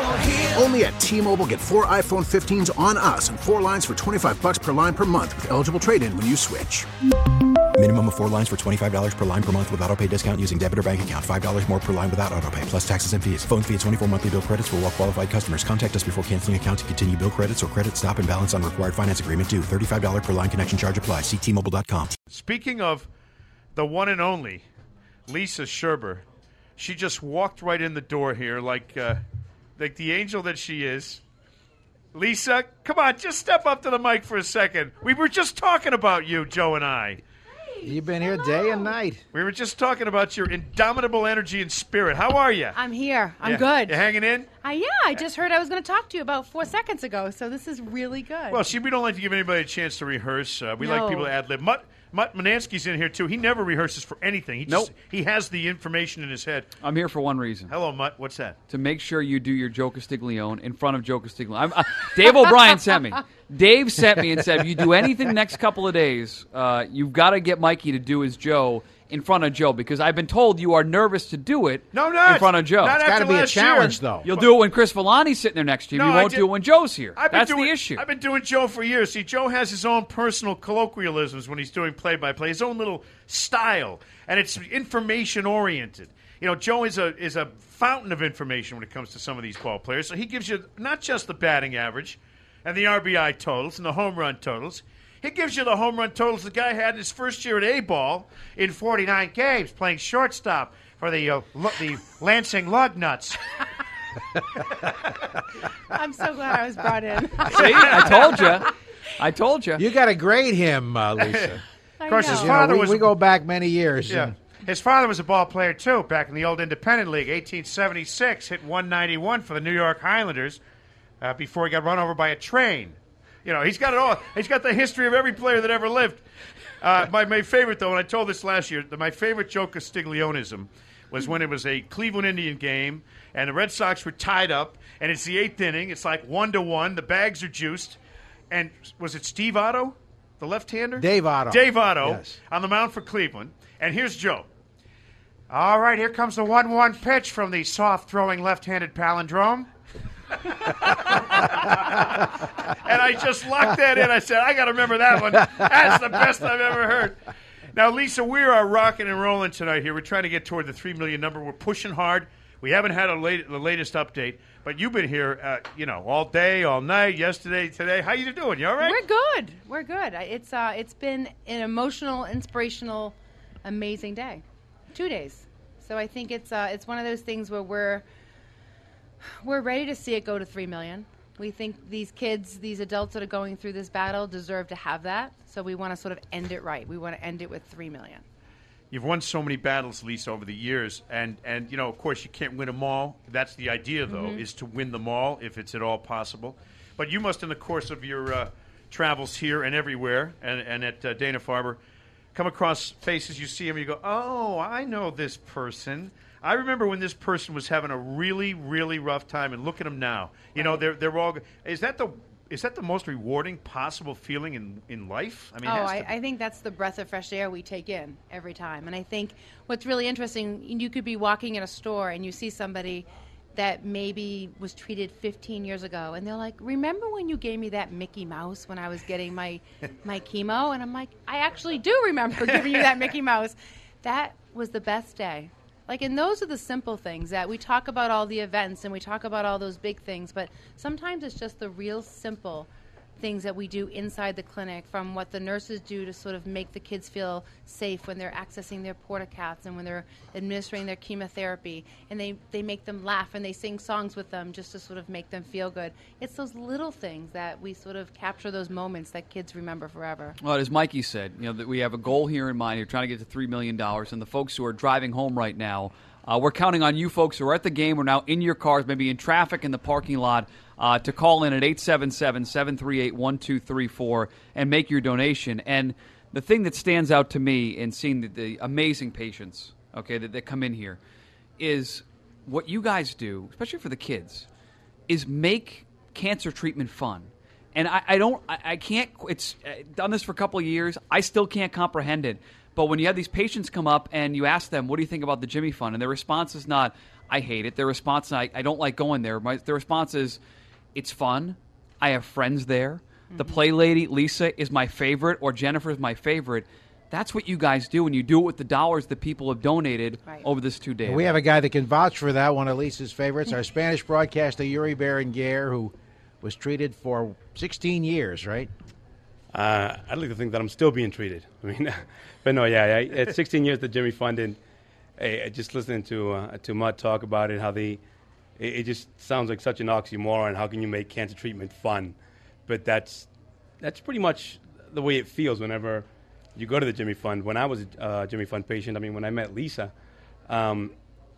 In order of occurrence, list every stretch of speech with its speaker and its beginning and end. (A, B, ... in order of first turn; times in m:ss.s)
0:00.2-0:06.8 A
0:07.8-0:22.1 B
0:22.3-0:23.1 C
0:23.7-0:24.6 C
0:25.3-0:26.2 C
0:26.8-0:29.2 C
0:29.8-0:31.2 C
0:32.1-0:37.2 C
0:37.7-0:38.9 D
0:37.8-0:39.2 E
0:39.3-0:42.8 C
0:42.7-0:44.0 D
0:43.4-0:44.5 C
0:44.6-0:48.6 D
0:48.5-0:56.7 C
0:50.8-0:51.3 D
0:54.7-0:54.9 F
0:56.8-0:57.7 F
0:57.7-0:58.6 C
0:58.7-1:13.0 F
1:11.9-1:14.5 C
1:13.0-1:14.3 E
1:14.2-1:18.0 F
1:15.9-1:16.5 C
1:17.1-1:43.4 C
1:45.9-1:48.1 D
1:47.5-1:49.8 F
1:47.6-1:48.3 C
1:49.8-1:51.6 E
1:52.0-1:52.6 D
1:52.0-1:53.1 C
1:52.2-1:54.3 E
1:54.1-2:00.6 C
2:01.2-2:06.2 C
2:06.8-2:18.0 C
2:18.5-2:24.5 C
2:21.0-2:22.4 E
2:25.5-2:29.7 C
2:30.4-2:37.2 C
2:37.7-2:49.0 C
2:48.8-2:58.0 D
2:59.2-3:08.2 D
3:08.9-3:21.8 C
3:14.1-3:14.4 D
3:22.3-3:36.1 C
3:30.5-3:30.8 D
3:35.6-4:20.4 D
4:20.4-4:41.0 F
4:41.6-4:44.5 F
4:45.1-5:00.4 F
5:00.9-5:11.4 F
5:03.3-5:03.6 D
5:11.0-5:18.7 E
5:19.5-5:24.6 G
5:25.2-5:28.0 G
5:28.6-5:33.3 G
5:33.8-5:39.9 G
5:40.5-5:40.9 G